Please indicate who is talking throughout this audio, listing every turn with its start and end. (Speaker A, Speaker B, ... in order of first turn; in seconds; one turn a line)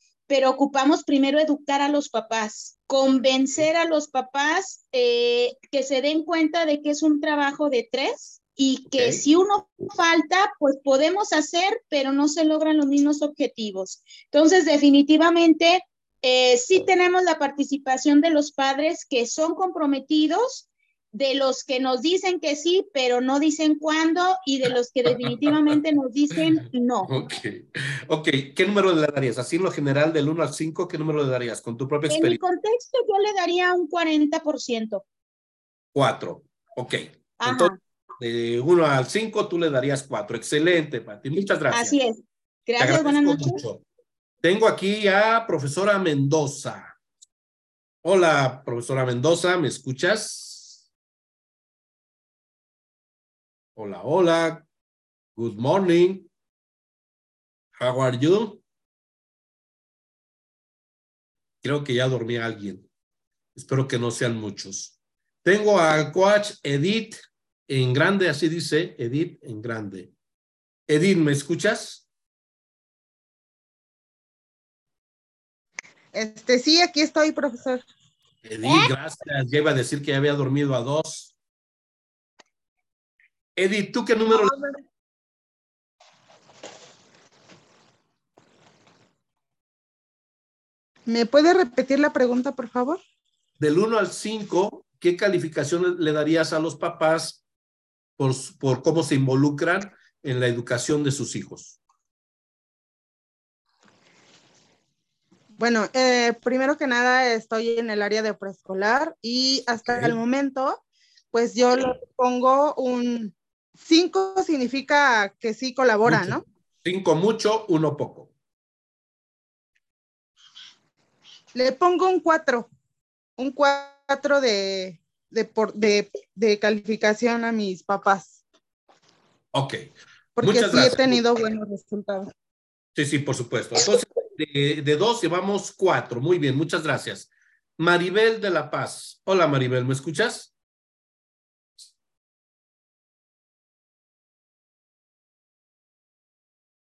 Speaker A: 0.3-27.1
Speaker B: 8.9-9.2
Speaker B: 25.1-25.5
Speaker B: 27.0-32.4
Speaker A: 32.1-35.0
Speaker B: 35.9-42.0
Speaker A: 37.4-37.7
Speaker A: 41.7-43.6
Speaker B: 42.8-43.8
Speaker B: 44.4-46.9
Speaker B: 48.0-50.8
Speaker B: 53.8-54.6
Speaker B: 55.4-56.3
Speaker B: 57.8-58.6
Speaker B: 61.6-62.8
Speaker B: 63.5-70.1
Speaker B: 70.9-72.0
Speaker C: 76.1-77.8
Speaker B: 78.4-81.3
Speaker B: 83.6-84.6
Speaker C: 91.1-93.0
Speaker B: 93.6-97.4
Speaker B: 98.2-101.8
Speaker C: 105.6-110.8
Speaker B: 109.9-110.2
Speaker C: 111.3-116.4
Speaker B: 116.0-118.3
Speaker C: 121.5-122.7
Speaker C: 123.4-128.4
Speaker B: 129.5-129.9
Speaker C: 130.3-132.3
Speaker B: 130.4-131.5
Speaker B: 132.9-140.5